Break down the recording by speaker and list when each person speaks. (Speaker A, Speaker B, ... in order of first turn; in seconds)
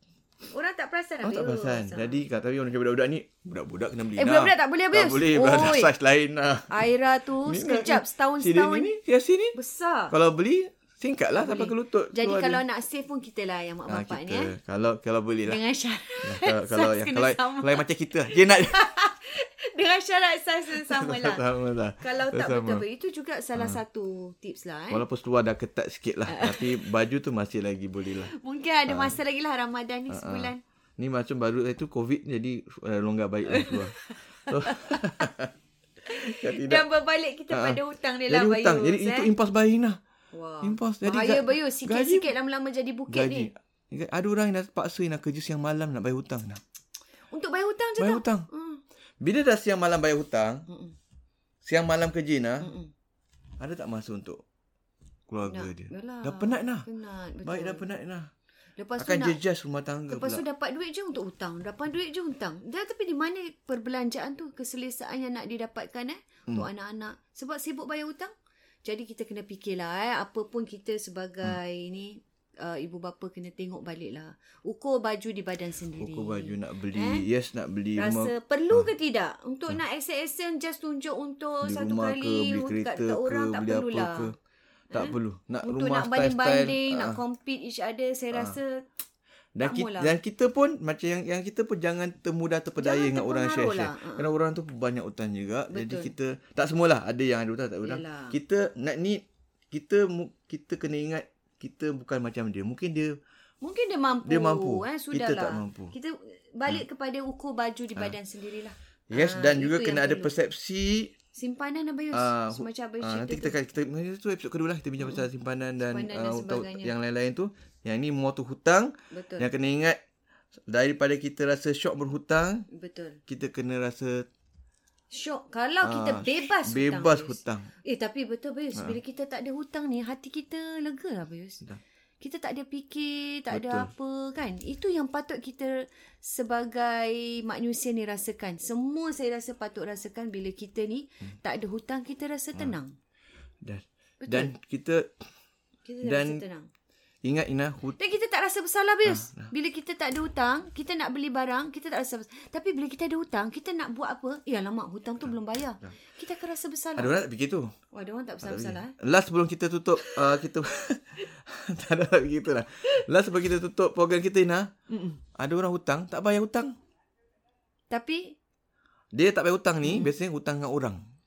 Speaker A: 0.5-2.2, 4.2-5.9, 6.7-8.9, 9.5-10.1, 11.3-14.5, 15.4-21.4, 22.0-25.0, 26.3-26.9, 28.3-30.6, 33.5-35.3, 36.0-39.3, 40.3-43.5, 47.3-48.8, 50.7-50.9, 52.6-52.9, 55.5-57.9, 58.8-59.4, 60.1-68.3, 68.8-77.2, 78.0-84.3, 84.9-88.8, 89.6-90.2, 92.8-94.3, 95.7-96.1, 97.8-98.4, 103.6-110.3, 111.3-113.6, 115.8-116.9, 119.1-119.5, 122.7-123.2, 125.1-131.6, 132.2-142.9, 144.2-144.5, 145.8-146.7, 148.0-157.2, 157.9-158.9, 160.0-160.4, 164.9-165.2, 167.9-168.4, 169.8-170.1
Speaker B: 1.2-6.7, 7.4-9.6, 10.1-12.6, 13.9-15.6, 16.2-18.9, 20.7-22.8, 24.9-28.3, 28.9-29.2, 30.1-35.5, 36.1-36.9, 37.5-40.0, 40.6-42.3, 43.1-46.6, 48.0-48.5, 49.2-50.6, 51.6-52.7, 53.6-54.4, 55.3-56.9, 57.4-58.3, 59.0-60.4, 75.9-78.9, 81.6-84.3, 84.9-87.2, 88.3-88.6, 89.5-103.2, 104.2-105.9, 109.1-111.1, 112.1-120.0, 120.7-122.7, 123.3-124.3, 125.8-127.7, 133.5-133.9, 143.6-145.2, 146.0-146.4, 147.2-148.0, 149.0-149.5, 157.0-157.7, 158.4-164.7, 165.3-166.7, 169.1-171.0